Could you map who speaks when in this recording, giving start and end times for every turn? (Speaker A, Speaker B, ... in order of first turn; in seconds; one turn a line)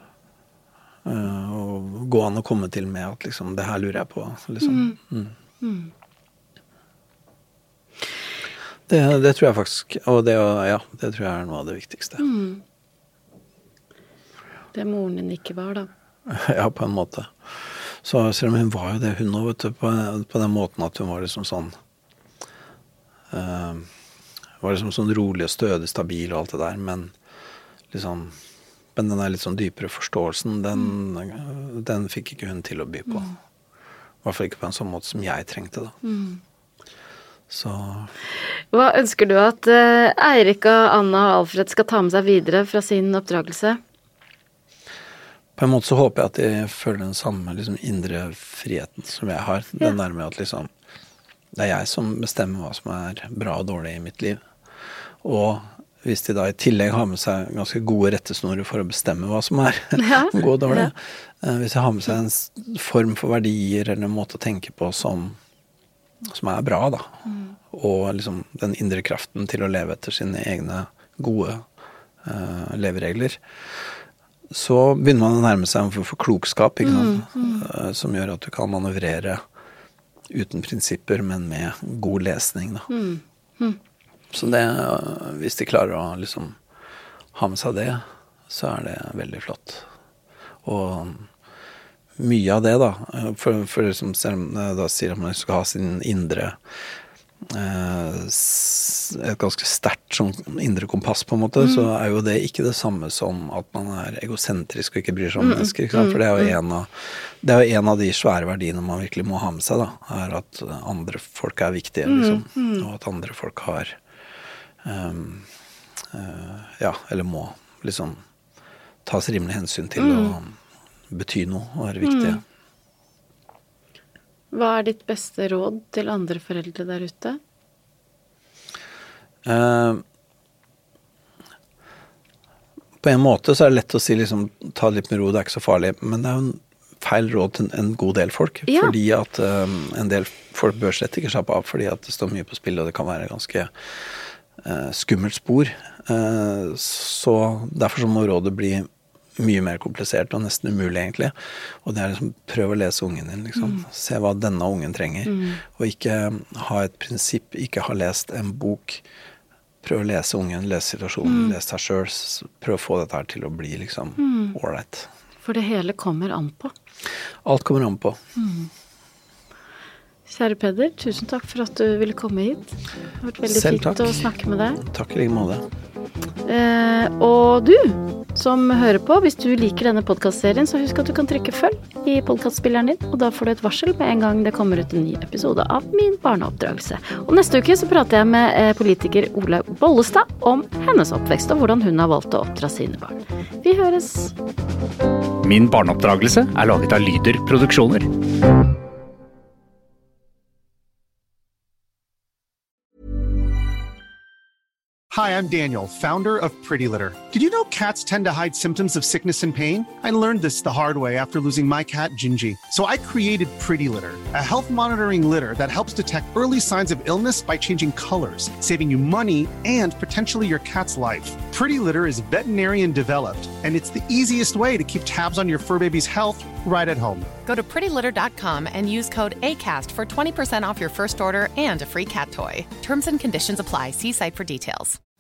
Speaker A: 1.0-5.3
Speaker B: 4.6-5.0
Speaker B: 5.6-5.9
Speaker A: 8.9-12.2
Speaker B: 12.2-12.6
Speaker B: 14.7-15.9
Speaker A: 16.3-21.7
Speaker A: 23.3-23.9
Speaker A: 24.6-27.1
Speaker A: 27.9-28.4
Speaker A: 28.9-33.3
Speaker A: 34.2-35.9
Speaker B: 36.0-36.4
Speaker A: 37.5-38.1
Speaker B: 38.7-43.8
Speaker A: 45.6-50.7
Speaker A: 51.5-54.4
Speaker A: 55.2-65.4
Speaker B: 60.0-60.9
Speaker A: 66.2-67.1
Speaker B: 67.3-67.5
Speaker A: 67.7-71.7
Speaker A: 72.2-74.0
Speaker A: 74.5-79.4
Speaker B: 76.8-77.6
Speaker A: 80.3-82.9
Speaker B: 82.9-83.8
Speaker A: 84.3-86.6
Speaker A: 87.3-89.8
Speaker A: 90.6-91.3
Speaker A: 92.2-96.6
Speaker A: 97.5-114.0
Speaker B: 101.6-101.9
Speaker B: 105.4-106.5
Speaker B: 112.1-112.8
Speaker A: 114.8-115.5
Speaker A: 116.1-118.2
Speaker A: 119.0-120.5
Speaker B: 120.0-120.4
Speaker A: 121.1-122.4
Speaker B: 122.0-122.4
Speaker B: 124.5-127.4
Speaker A: 129.4-130.0
Speaker A: 133.0-159.0
Speaker B: 155.3-155.6
Speaker A: 159.8-165.1
Speaker B: 161.2-161.6
Speaker B: 164.2-164.6
Speaker B: 165.4-166.7
Speaker A: 167.4-168.2
Speaker B: 168.3-168.7
Speaker B: 170.3-172.7
Speaker B: 173.2-174.8
Speaker A: 173.4-175.7
Speaker B: 176.4-194.3
Speaker C: 195.4-198.1
Speaker D: 205.1-227.3
Speaker E: 227.4-235.0